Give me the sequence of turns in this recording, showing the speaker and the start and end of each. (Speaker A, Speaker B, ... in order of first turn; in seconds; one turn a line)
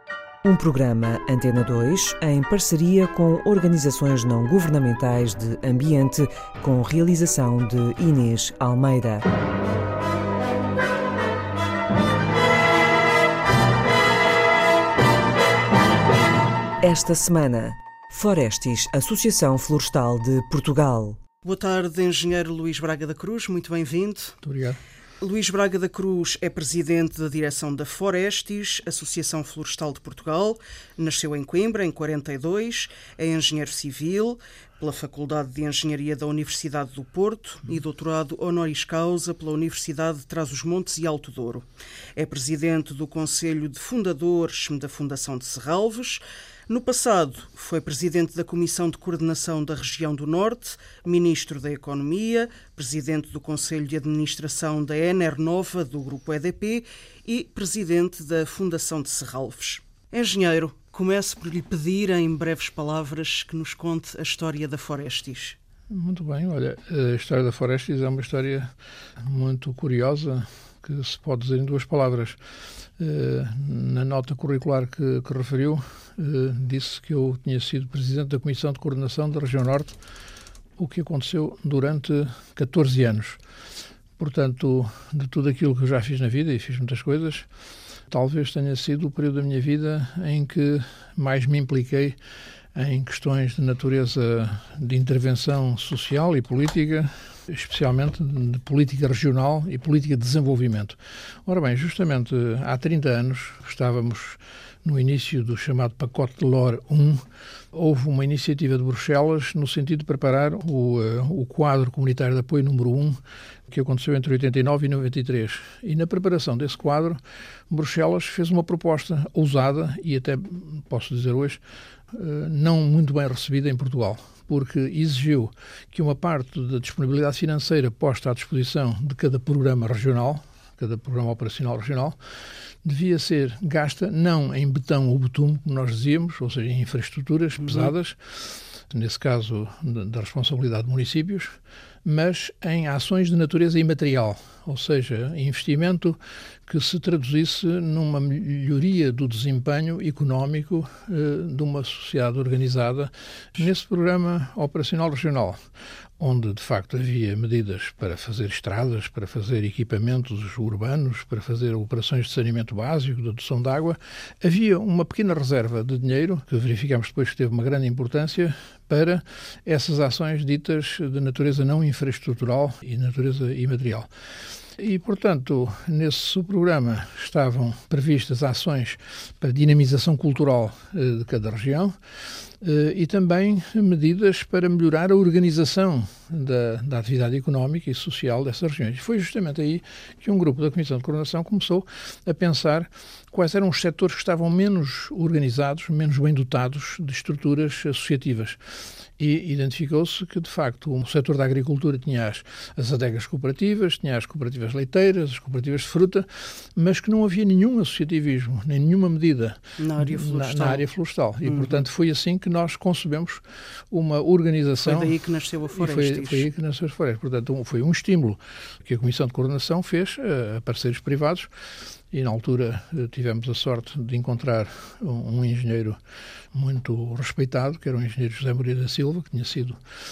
Speaker A: 0.4-9.3
Speaker A: 16.8-21.2
Speaker B: 21.4-24.4
Speaker C: 24.4-24.8
Speaker B: 25.2-65.6
Speaker C: 65.9-72.4
Speaker C: 73.0-80.0
Speaker C: 80.8-83.4
Speaker C: 84.2-87.5
Speaker C: 88.1-92.2
Speaker C: 92.8-107.2
Speaker C: 107.7-132.2
Speaker C: 132.8-155.6
Speaker B: 137.7-137.9
Speaker C: 156.2-174.1
Speaker C: 174.8-181.9
Speaker C: 182.6-198.6
Speaker C: 199.2-215.2
Speaker B: 209.8-210.8
Speaker B: 211.5-211.8
Speaker B: 214.8-216.5
Speaker C: 215.7-221.5
Speaker C: 222.1-226.0
Speaker C: 226.5-229.8